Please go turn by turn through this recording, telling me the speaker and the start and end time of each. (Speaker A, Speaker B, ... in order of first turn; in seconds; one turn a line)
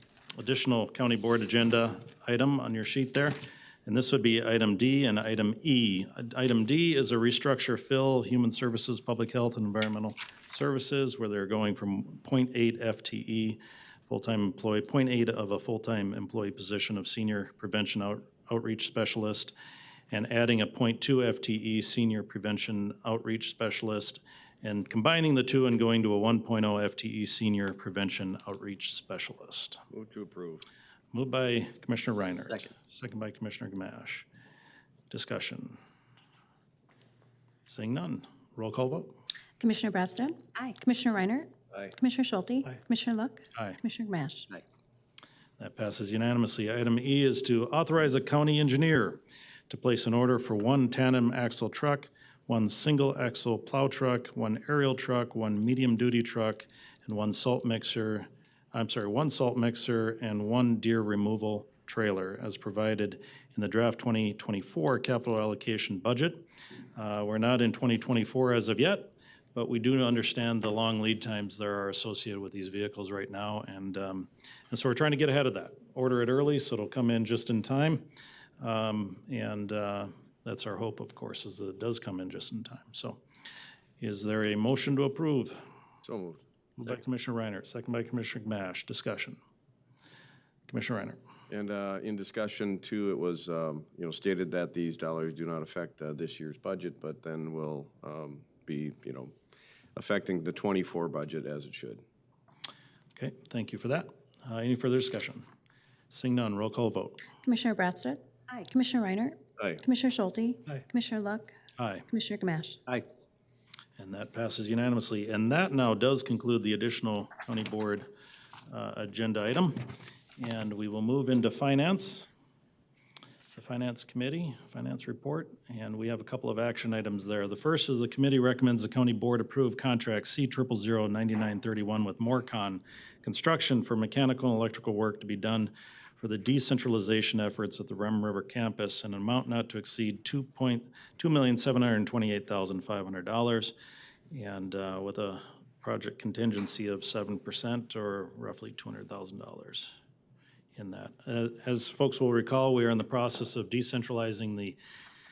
Speaker A: 0.4-19.5
Speaker A: 20.1-29.8
Speaker B: 29.9-30.6
Speaker A: 31.1-34.2
Speaker A: 35.1-35.8
Speaker A: 37.7-39.1
Speaker C: 39.6-44.6
Speaker A: 45.6-66.4
Speaker A: 67.0-78.1
Speaker A: 78.6-83.2
Speaker A: 84.0-85.6
Speaker B: 86.0-86.4
Speaker A: 86.8-89.4
Speaker A: 90.7-91.2
Speaker B: 91.5-99.3
Speaker B: 99.9-102.0
Speaker A: 103.2-105.4
Speaker A: 106.1-107.2
Speaker C: 107.4-111.5
Speaker A: 111.8-112.1
Speaker C: 112.1-113.0
Speaker A: 114.0-118.1
Speaker A: 118.7-119.8
Speaker A: 120.4-122.3
Speaker A: 123.5-143.7
Speaker A: 144.3-150.0
Speaker A: 150.7-154.8